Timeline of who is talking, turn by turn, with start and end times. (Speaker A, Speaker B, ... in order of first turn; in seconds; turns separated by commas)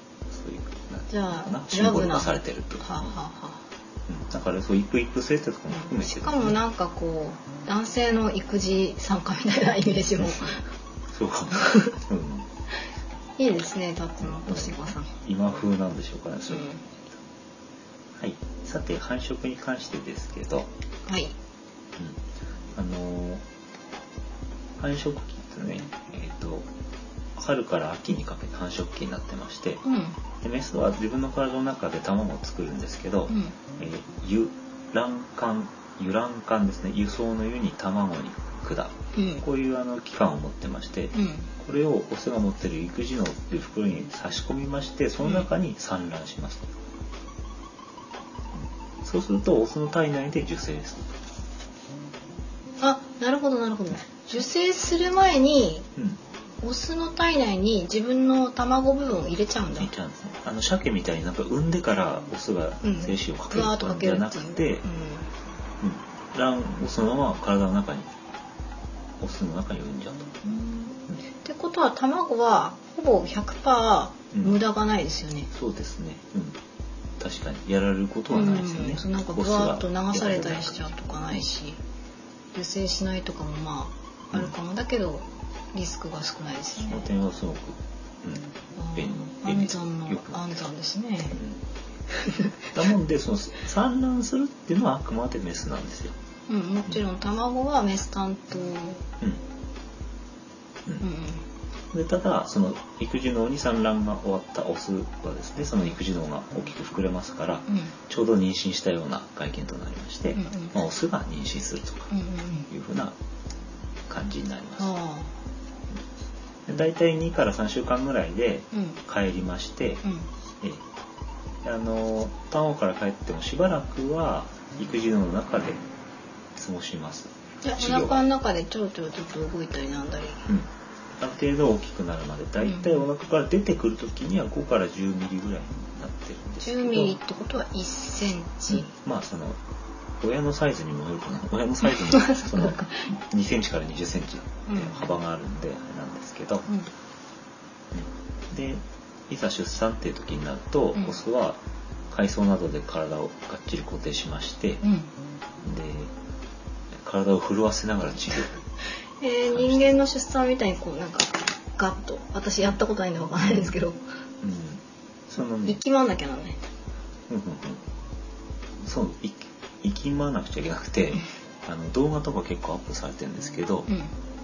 Speaker A: 0.3-3.0, Speaker B: 1.1-3.6, Speaker A: 4.1-6.5, Speaker B: 5.7-10.6, Speaker A: 11.1-12.5, Speaker B: 11.6-12.0, Speaker B: 13.4-15.1, Speaker A: 14.3-16.7, Speaker B: 16.5-16.8, Speaker A: 18.2-20.7, Speaker B: 21.1-21.4, Speaker A: 22.8-23.4, Speaker A: 24.8-26.7, Speaker A: 27.4-29.8, Speaker B: 29.8-30.2, Speaker A: 30.4-46.7, Speaker B: 33.3-33.6, Speaker B: 39.2-39.4, Speaker B: 41.1-41.5, Speaker A: 48.5-51.2, Speaker B: 52.8-55.9, Speaker B: 56.6-59.9, Speaker A: 59.8-64.8, Speaker B: 62.8-65.3, Speaker A: 65.8-68.1, Speaker A: 69.2-70.3, Speaker B: 70.4-75.5, Speaker A: 75.5-76.6, Speaker A: 77.2-80.9, Speaker B: 78.3-81.8, Speaker B: 82.5-87.2, Speaker A: 86.8-90.5, Speaker B: 88.8-91.4, Speaker A: 91.3-91.6, Speaker B: 92.2-92.5, Speaker A: 92.7-96.2, Speaker B: 96.5-99.0, Speaker B: 101.0-101.4, Speaker A: 101.9-112.1, Speaker B: 107.7-108.0, Speaker B: 110.3-110.7, Speaker B: 112.1-112.7, Speaker A: 112.7-113.2, Speaker A: 114.1-114.9, Speaker B: 114.8-115.3, Speaker A: 116.7-120.0, Speaker B: 118.7-119.0, Speaker A: 121.6-125.8, Speaker A: 126.6-128.3, Speaker B: 127.6-130.5, Speaker A: 131.2-137.2, Speaker B: 132.6-132.9, Speaker B: 136.6-138.9, Speaker A: 138.7-139.6, Speaker A: 140.2-146.7, Speaker B: 142.0-143.1, Speaker B: 144.7-144.9, Speaker A: 147.9-154.8, Speaker B: 154.8-155.1, Speaker A: 155.6-156.1, Speaker A: 157.0-158.6, Speaker B: 159.2-164.0, Speaker A: 159.5-160.0, Speaker A: 163.4-163.7, Speaker A: 164.4-165.8, Speaker B: 165.7-166.6, Speaker A: 167.3-167.8, Speaker A: 168.8-173.9